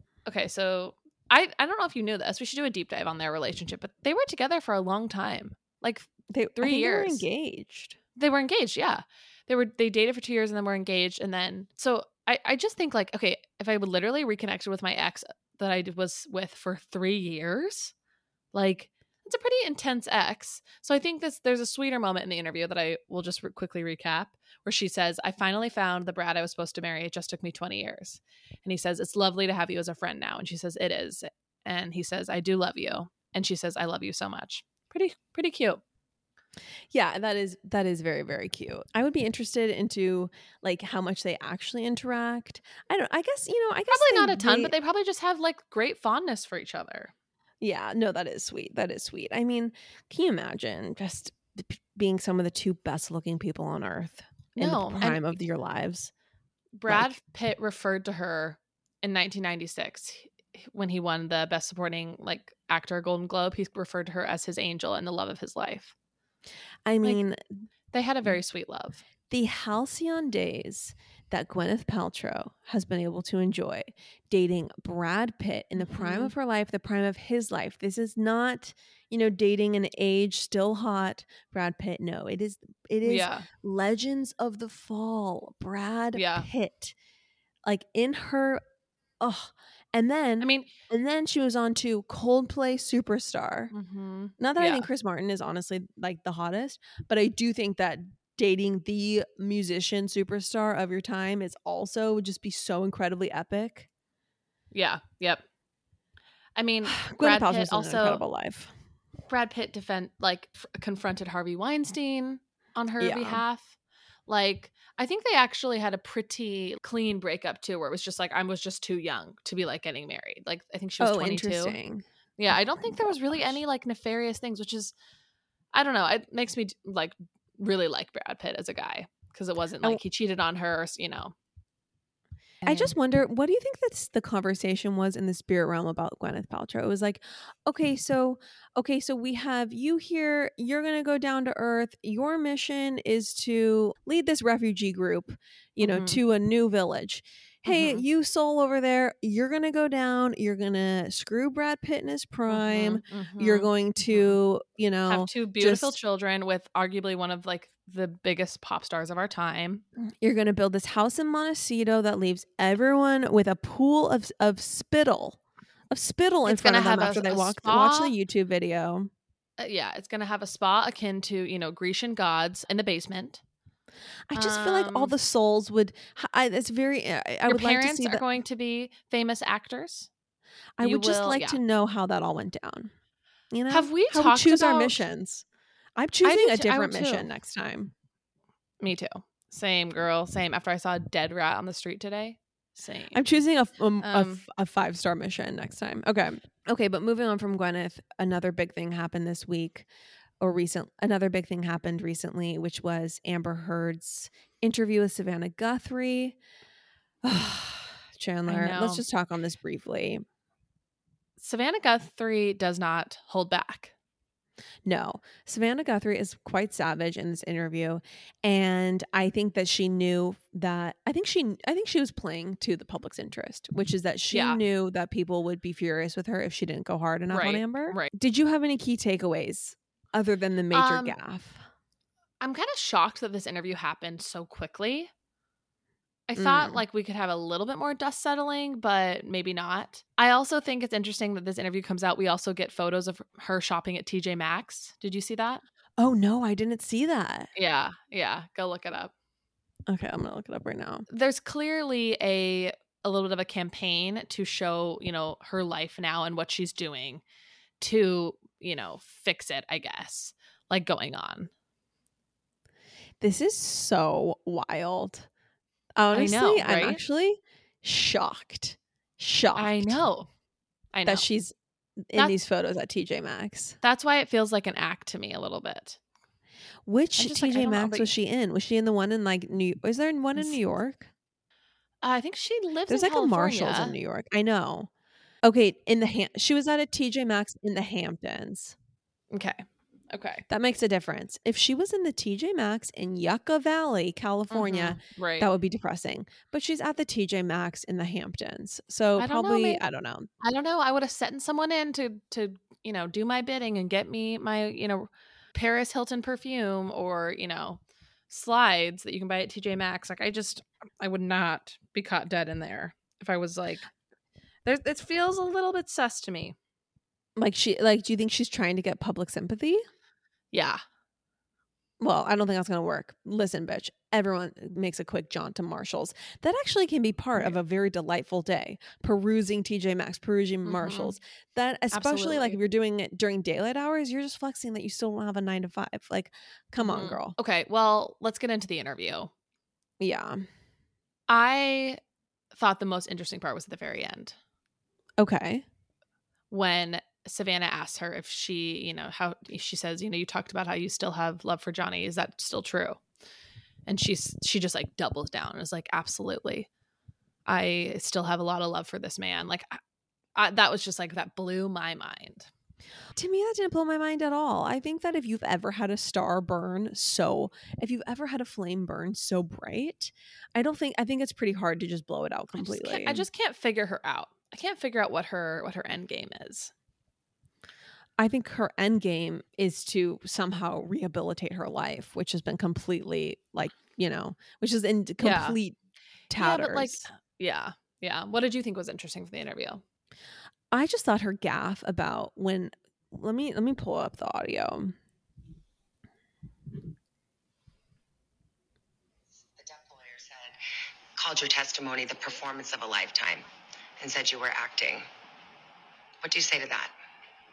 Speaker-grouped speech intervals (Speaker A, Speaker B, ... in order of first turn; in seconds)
Speaker A: 0.2-7.2, 8.2-17.9, 18.5-35.8, 43.9-47.1, 54.5-55.4, 56.8-65.9, 67.9-69.0, 75.8-76.3, 83.0-83.5, 86.1-86.5, 90.4-90.7, 93.7-94.9, 104.7-105.4, 106.5-108.2, 109.3-113.7, 114.3-121.8, 122.4-124.9, 125.7-131.3, 132.6-132.9, 145.8-146.2, 147.7-148.0, 152.5-154.4, 155.1-159.8, 166.4-168.1, 169.6-173.4, 174.3-175.1, 177.4-180.1, 180.8-181.6, 183.7-185.0, 186.2-187.3, 188.8-193.2, 194.0-194.4, 208.5-209.0, 211.4-213.9, 224.3-224.6, 227.3-228.1, 230.7-231.1, 232.4-235.1, 236.3-245.6, 247.6-249.1, 251.1-257.2, 257.8-261.5, 266.1-267.0, 269.6-270.3, 270.9-271.2, 273.8-276.0, 277.2-278.1, 282.0-283.9, 289.3-290.4, 294.5-295.5, 299.2-299.8, 300.4-313.9, 314.6-316.5, 320.5-320.8, 330.6-331.1, 331.9-332.6, 336.8-339.3, 341.3-342.0, 342.5-344.4, 346.5-353.0, 353.9-356.7, 357.4-359.8, 360.3-362.5, 372.6-376.7, 385.2-385.6, 386.4-389.8
Speaker B: 6.3-8.0, 36.9-44.7, 47.6-56.1, 56.9-57.2, 66.8-67.6, 69.3-86.9, 87.6-88.6, 89.2-93.7, 94.4-103.9, 106.8-108.7, 113.0-113.4, 121.0-123.6, 132.6-155.9, 160.0-165.4, 165.9-169.1, 174.3-178.2, 180.8-182.9, 183.5-185.4, 185.9-187.9, 193.1-199.8, 200.4-206.4, 207.2-210.2, 214.8-231.6, 236.4-236.8, 246.0-247.5, 249.9-251.1, 263.2-265.3, 266.0-270.0, 271.0-271.5, 272.1-273.8, 276.9-281.1, 282.9-284.9, 285.4-288.8, 290.5-300.3, 317.4-319.8, 322.0-337.3, 340.0-340.4, 345.2-345.6, 363.1-373.2, 378.2-385.8, 386.3-387.1, 390.7-395.0
Speaker C: 399.6-400.6, 401.2-403.4, 404.0-405.1, 406.2-406.9